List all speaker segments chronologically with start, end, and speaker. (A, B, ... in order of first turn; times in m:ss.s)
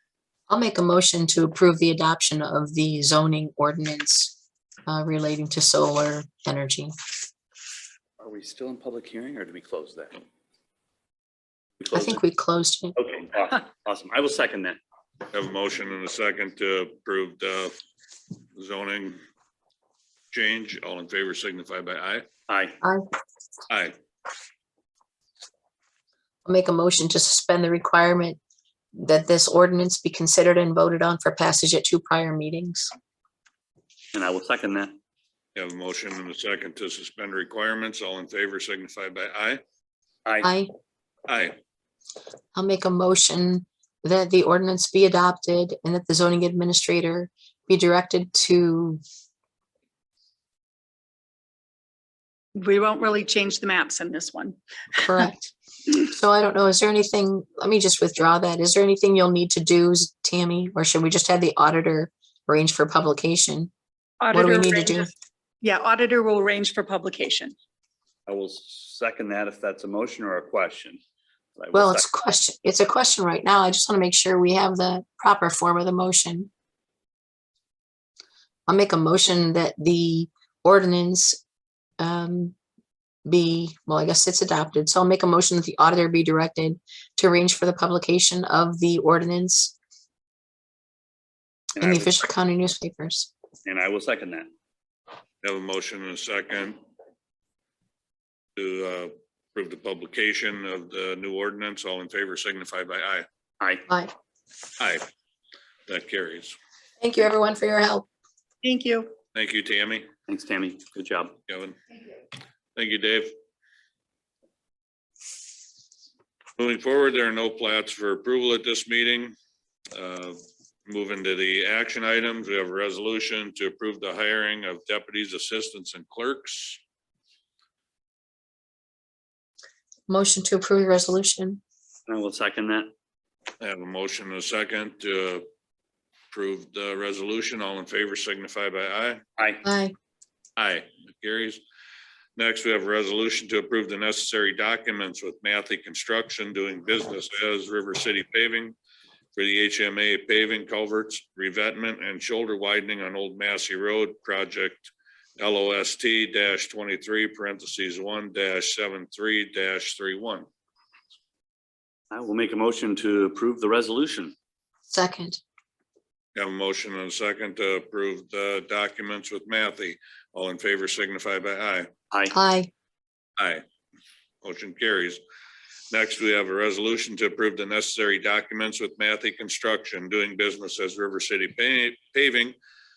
0:00.5-0:04.4 A
0:04.9-0:06.9 A
0:08.2-0:10.2 B
0:11.8-0:12.2 B
0:11.9-0:13.0 A
0:13.0-0:14.8 B
0:15.3-0:17.8 C
0:18.6-0:19.2 C
0:20.3-0:22.3 C
0:22.5-0:22.8 B
0:23.7-0:23.9 C
0:26.4-0:28.4 A
0:29.0-0:32.9 A
0:34.1-0:35.0 B
0:35.6-0:39.6 C
0:40.4-0:40.7 A
0:41.3-0:41.6 C
0:42.6-0:49.0 A
0:52.6-0:54.6 D
0:55.0-1:03.7 A
1:04.2-1:05.1 D
1:04.3-1:05.1 A
1:05.6-1:07.6 D
1:08.3-1:11.0 B
1:11.6-1:12.1 B
1:11.7-1:16.5 A
1:18.7-1:21.4 A
1:22.0-1:22.6 A
1:23.3-1:29.7 A
1:31.8-1:32.2 B
1:31.8-1:33.3 A
1:33.6-1:34.5 B
1:35.4-1:36.8 C
1:38.6-1:43.3 C
1:43.6-1:43.9 B
1:43.9-1:44.1 A
1:44.8-1:45.1 C
1:45.9-1:46.6 C
1:47.0-1:48.1 A
1:48.6-1:49.1 D
1:49.3-1:50.1 C
1:50.3-1:51.4 B
1:51.5-1:51.8 C
1:52.8-1:53.3 C
1:56.6-1:59.4 C
1:59.9-2:06.8 C
2:10.1-2:11.6 A
2:12.1-2:12.9 B
2:13.6-2:15.4 C
2:16.3-2:19.2 C
2:19.4-2:19.6 B
2:19.6-2:19.9 A
2:20.6-2:21.6 C
2:22.4-2:28.8 C
2:29.4-2:40.5 C
2:42.1-2:44.4 B
2:44.9-2:45.4 A
2:46.4-2:51.9 C
2:52.3-2:52.7 A
2:53.4-2:53.6 C
2:54.4-2:55.2 C
2:55.9-3:02.6 C